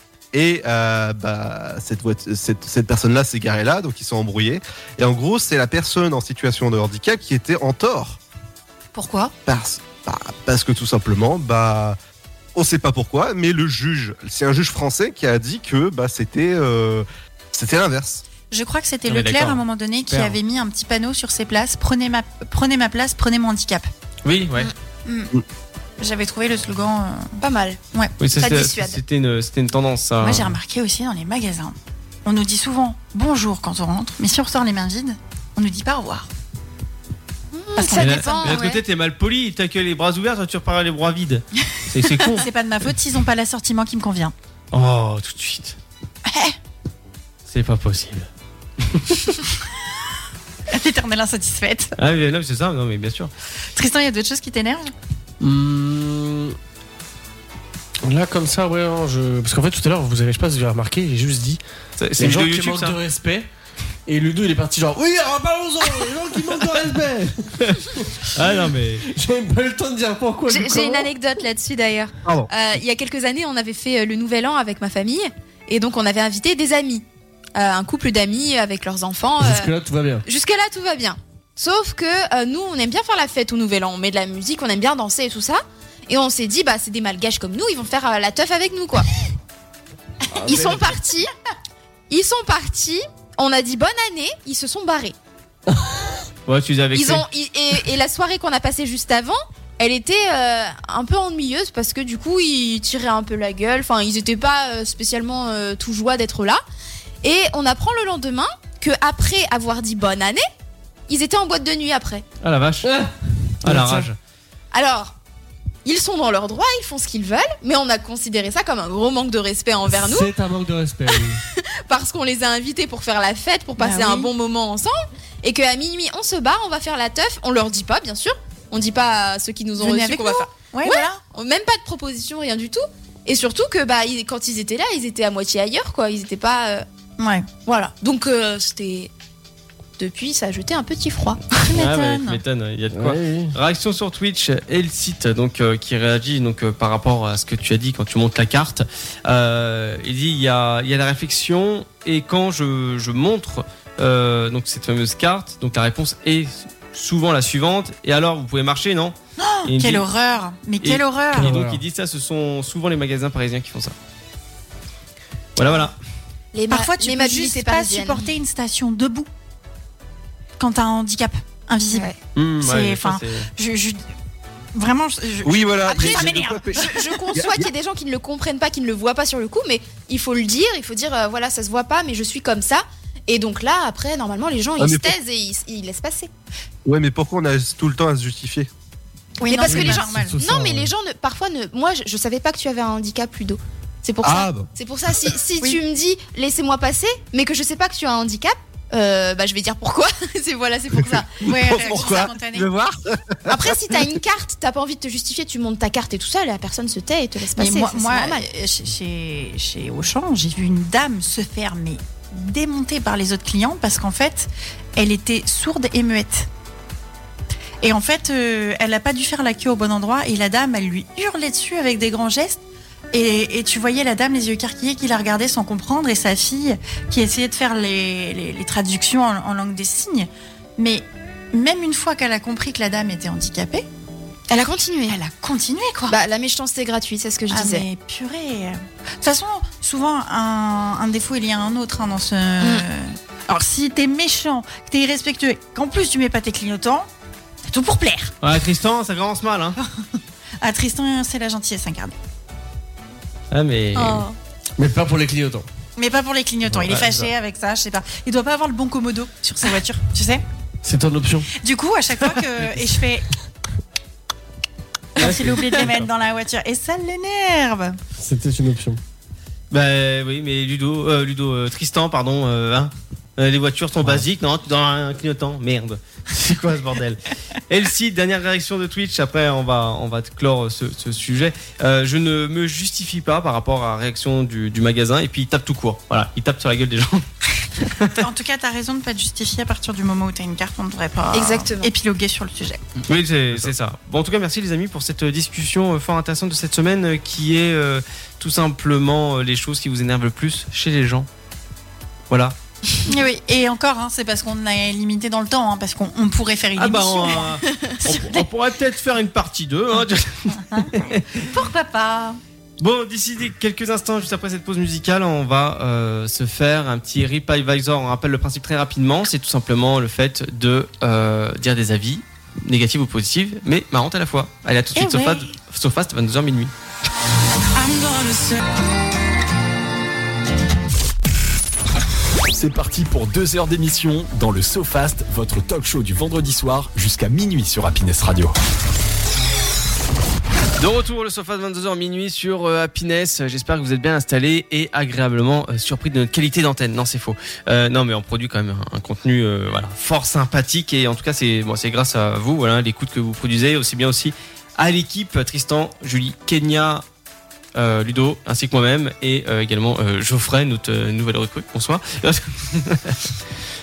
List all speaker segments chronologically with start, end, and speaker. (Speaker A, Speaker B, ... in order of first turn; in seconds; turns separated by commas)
Speaker A: 0.3-8.2, Speaker B: 8.9-9.3, Speaker A: 9.4-12.0, Speaker A: 12.5-18.2, Speaker B: 18.5-23.9, Speaker C: 19.1-20.4, Speaker C: 24.2-24.7, Speaker B: 25.1-25.3, Speaker B: 26.0-27.3, Speaker D: 27.4-27.8, Speaker C: 28.2-30.6, Speaker D: 28.4-29.0, Speaker B: 30.2-36.3, Speaker D: 37.5-38.8, Speaker B: 37.8-38.7, Speaker C: 37.9-42.5, Speaker B: 42.3-44.3, Speaker C: 44.7-45.8, Speaker B: 46.2-46.5, Speaker C: 47.5-48.3, Speaker C: 48.8-49.4, Speaker B: 50.7-51.9, Speaker C: 52.0-53.3, Speaker B: 53.7-54.9, Speaker E: 55.4-56.5, Speaker E: 58.0-61.6, Speaker C: 62.0-63.0, Speaker E: 62.2-63.5, Speaker E: 64.1-71.1, Speaker C: 68.3-69.0, Speaker D: 70.5-77.0, Speaker D: 77.5-79.7, Speaker E: 79.4-80.2, Speaker D: 80.2-89.1, Speaker D: 90.4-91.3, Speaker E: 90.4-90.7, Speaker D: 92.1-95.1, Speaker C: 96.5-97.2, Speaker D: 96.9-106.6, Speaker D: 107.2-110.4, Speaker D: 111.1-112.2, Speaker C: 112.4-112.9, Speaker E: 112.8-113.1, Speaker E: 113.6-114.1, Speaker C: 113.6-114.2, Speaker D: 114.7-115.1, Speaker D: 115.8-120.3, Speaker E: 119.9-121.4, Speaker D: 121.3-136.8, Speaker B: 123.8-124.3, Speaker B: 129.8-131.2, Speaker B: 137.2-137.5, Speaker D: 137.7-139.1, Speaker D: 140.0-141.5, Speaker B: 141.7-142.4, Speaker C: 141.7-160.0, Speaker E: 142.9-143.5, Speaker B: 159.4-161.5, Speaker C: 160.8-163.9, Speaker E: 161.3-161.8, Speaker C: 165.6-165.9, Speaker D: 166.5-168.3, Speaker B: 166.7-169.3, Speaker B: 170.6-174.0, Speaker C: 172.3-173.5, Speaker B: 174.7-177.0, Speaker A: 175.4-177.7, Speaker D: 175.9-186.3, Speaker A: 184.8-185.1, Speaker A: 186.8-188.7, Speaker B: 189.4-190.4, Speaker D: 189.4-202.1, Speaker E: 189.7-190.9, Speaker A: 194.2-194.7, Speaker A: 201.4-204.0, Speaker B: 201.4-202.7, Speaker D: 203.5-208.4, Speaker B: 207.5-216.5, Speaker B: 217.8-222.6, Speaker B: 223.1-233.8, Speaker D: 234.5-235.2, Speaker B: 235.1-236.2, Speaker D: 236.1-237.8, Speaker B: 237.5-247.1, Speaker B: 247.7-248.3, Speaker C: 248.4-249.8, Speaker B: 250.6-252.1, Speaker C: 253.5-254.3, Speaker D: 253.9-254.3, Speaker E: 254.8-255.7, Speaker B: 255.9-260.4, Speaker C: 256.7-257.3, Speaker E: 260.8-261.5, Speaker B: 261.5-263.2, Speaker B: 265.1-268.0, Speaker C: 265.2-266.1, Speaker E: 268.1-269.0, Speaker C: 269.7-287.2, Speaker C: 287.8-288.2, Speaker B: 288.1-292.8, Speaker D: 291.3-291.9, Speaker C: 293.1-301.3, Speaker C: 302.3-302.5, Speaker B: 303.1-308.5, Speaker C: 306.8-311.4, Speaker D: 307.3-307.9, Speaker B: 310.6-312.4, Speaker C: 312.8-326.7, Speaker B: 324.9-325.5, Speaker F: 332.5-338.5, Speaker C: 340.8-357.0, Speaker C: 357.7-363.3